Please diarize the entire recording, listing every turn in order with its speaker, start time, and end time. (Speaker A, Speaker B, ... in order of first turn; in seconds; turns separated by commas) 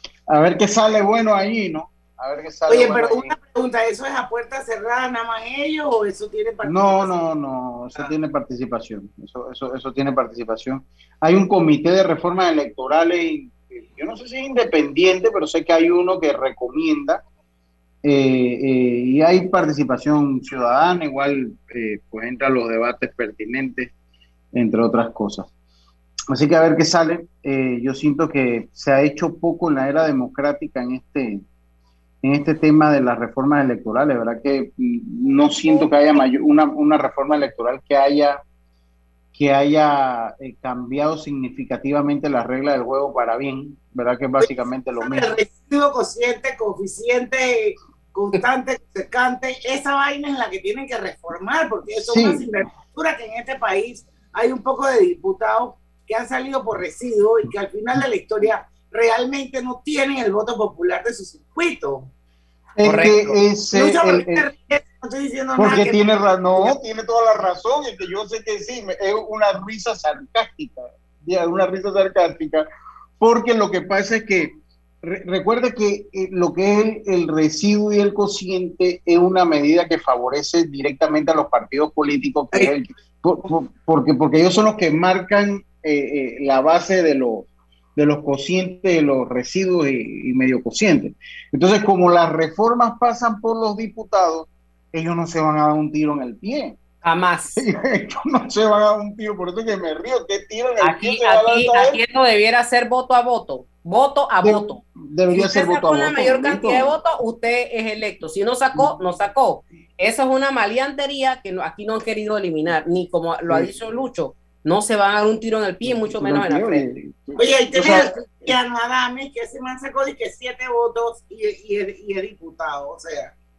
Speaker A: 0.3-3.3, Speaker B: 2.7-7.1, Speaker A: 6.6-17.2, Speaker A: 18.0-23.9, Speaker A: 24.5-25.5, Speaker A: 26.3-31.4, Speaker A: 32.2-38.4, Speaker A: 39.3-45.4, Speaker B: 44.4-62.1, Speaker A: 52.0-52.5, Speaker A: 62.8-64.4, Speaker B: 62.8-66.8, Speaker A: 65.6-72.7, Speaker A: 73.2-74.5, Speaker A: 75.0-96.8, Speaker C: 97.0-97.6, Speaker A: 97.5-102.0, Speaker C: 100.8-116.9, Speaker A: 104.4-106.9, Speaker A: 115.8-118.5, Speaker B: 117.4-123.3